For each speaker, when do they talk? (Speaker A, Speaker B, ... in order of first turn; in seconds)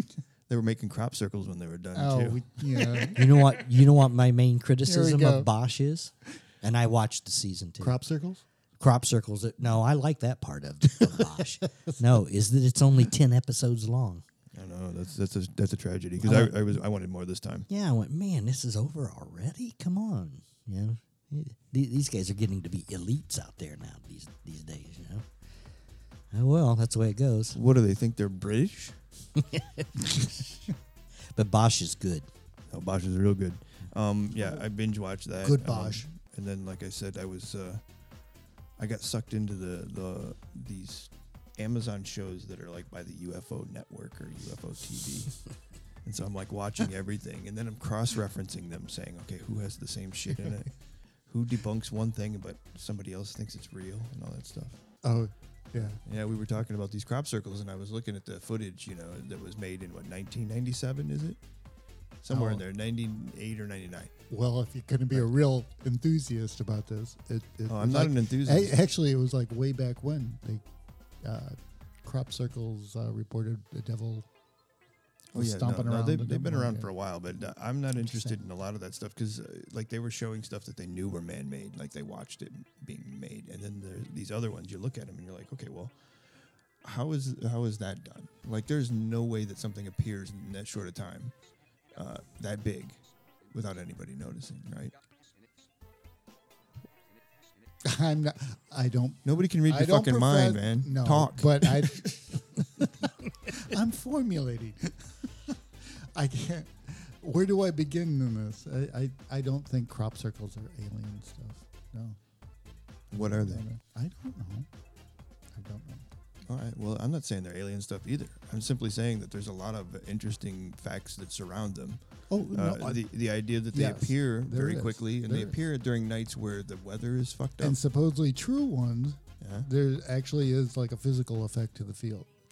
Speaker A: 0.5-3.1, 14.5-17.7, 27.5-28.9, 32.7-37.8, 38.8-45.5, 46.0-50.8, 51.3-54.8, 55.8-61.4, 62.2-64.1, 67.7-68.8, 75.3-85.9, 86.8-91.3, 91.9-94.9, 99.2-102.1, 113.1-113.6, 116.5-127.8, 129.4-129.7
Speaker B: 1.9-3.2, 4.8-5.5, 7.8-8.4, 11.0-11.6, 35.4-36.0, 55.0-56.0, 62.3-62.6, 64.3-70.6, 71.2-74.3, 75.3-76.9, 78.0-78.4, 97.8-112.2, 113.1-114.7, 115.5-116.0, 122.3-123.0, 123.7-125.6, 127.6-132.3
Speaker C: 3.1-8.0, 8.8-14.2, 16.2-16.5, 17.7-25.2, 26.3-27.6, 29.3-30.6, 31.3-32.3